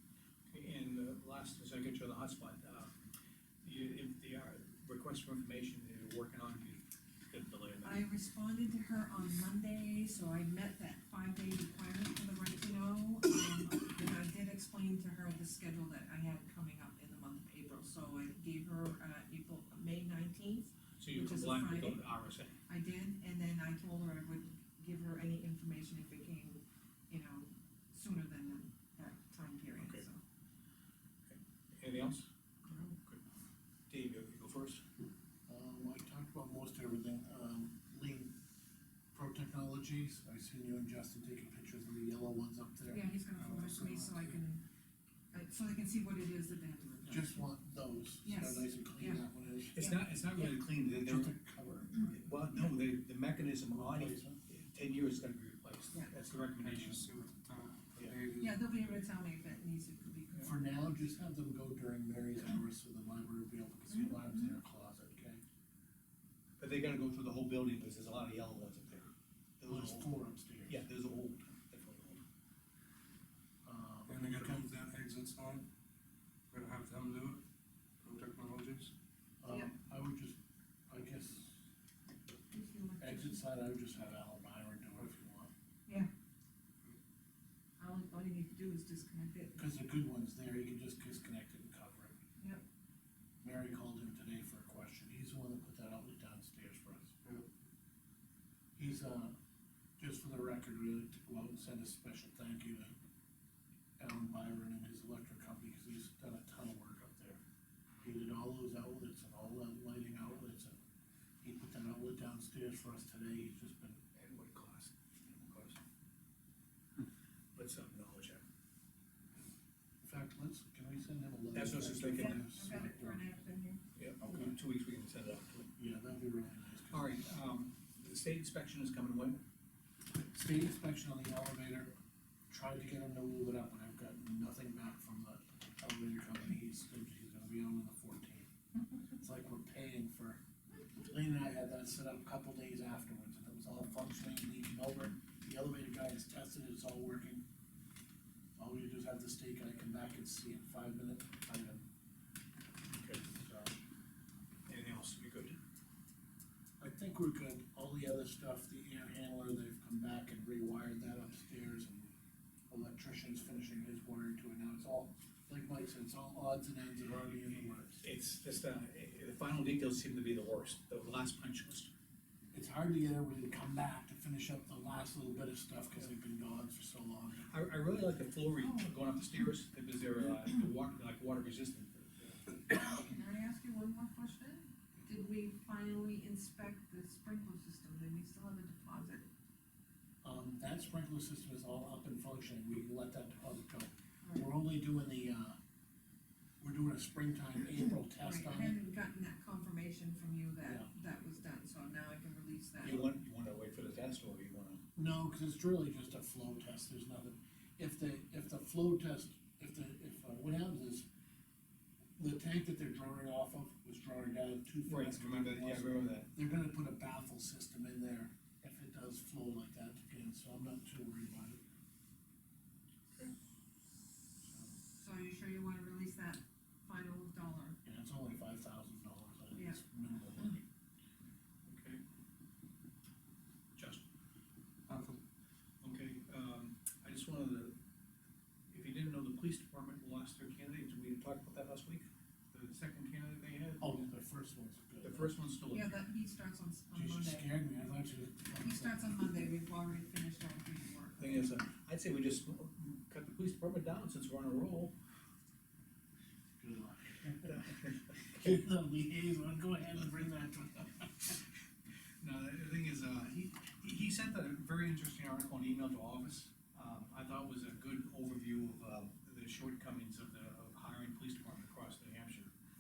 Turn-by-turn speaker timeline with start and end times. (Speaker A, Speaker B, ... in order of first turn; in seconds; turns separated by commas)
Speaker A: 0.5-3.0, Speaker A: 3.6-8.1, Speaker B: 7.8-22.0, Speaker A: 21.0-22.6, Speaker B: 22.7-30.2, Speaker A: 29.8-30.0, Speaker A: 31.3-33.2, Speaker A: 33.9-34.9, Speaker C: 35.5-38.4, Speaker C: 39.1-43.0, Speaker B: 42.9-44.6, Speaker D: 43.4-44.4, Speaker B: 45.3-47.4, Speaker C: 47.1-49.9, Speaker B: 48.2-49.2, Speaker A: 49.7-51.3, Speaker B: 49.8-50.6, Speaker C: 51.0-52.2, Speaker A: 52.1-57.1, Speaker C: 53.7-54.4, Speaker D: 56.6-58.5, Speaker B: 58.4-60.6, Speaker C: 60.4-65.4, Speaker B: 63.9-64.5, Speaker A: 66.6-70.1, Speaker C: 69.7-70.8, Speaker A: 70.7-72.2, Speaker C: 73.7-74.7, Speaker D: 74.1-75.7, Speaker D: 76.5-77.4, Speaker D: 78.0-78.9, Speaker C: 79.4-80.4, Speaker C: 80.9-81.6, Speaker B: 82.5-83.5, Speaker C: 83.0-85.5, Speaker B: 87.8-89.7, Speaker C: 89.6-92.2, Speaker C: 93.4-97.2, Speaker C: 98.8-99.3, Speaker C: 100.0-102.9, Speaker C: 104.0-107.4, Speaker C: 108.0-110.8, Speaker C: 111.4-114.0, Speaker A: 114.2-115.8, Speaker A: 117.5-118.4, Speaker C: 120.0-123.2, Speaker A: 121.5-122.4, Speaker B: 122.1-123.8, Speaker A: 124.0-125.7, Speaker C: 124.2-124.6, Speaker C: 125.8-127.2, Speaker A: 126.9-129.4, Speaker C: 130.3-131.9, Speaker C: 132.5-138.5, Speaker C: 139.2-140.4, Speaker C: 141.1-147.4, Speaker C: 148.6-151.8, Speaker A: 152.9-153.3, Speaker C: 153.4-153.7, Speaker A: 154.7-155.6, Speaker C: 156.8-162.1, Speaker C: 162.7-168.0, Speaker A: 167.9-171.9, Speaker C: 172.5-177.5, Speaker A: 177.5-182.4, Speaker B: 178.6-179.0, Speaker B: 182.7-189.3, Speaker C: 190.2-195.6, Speaker B: 194.2-194.5, Speaker C: 196.6-198.8, Speaker B: 198.2-203.1, Speaker C: 200.6-200.9, Speaker A: 202.8-204.8, Speaker C: 205.0-211.1, Speaker C: 212.2-221.6, Speaker A: 214.9-216.3, Speaker B: 224.8-227.8, Speaker C: 227.8-230.6, Speaker B: 229.6-229.8, Speaker A: 231.7-232.0, Speaker A: 233.8-234.0, Speaker D: 234.9-235.2, Speaker A: 235.8-237.8, Speaker A: 238.7-244.1, Speaker C: 243.8-245.3, Speaker A: 245.0-246.0, Speaker B: 245.7-247.5, Speaker C: 246.9-249.4, Speaker B: 248.6-251.6, Speaker A: 251.2-254.9, Speaker C: 256.6-261.4, Speaker A: 257.5-258.2, Speaker A: 262.2-272.5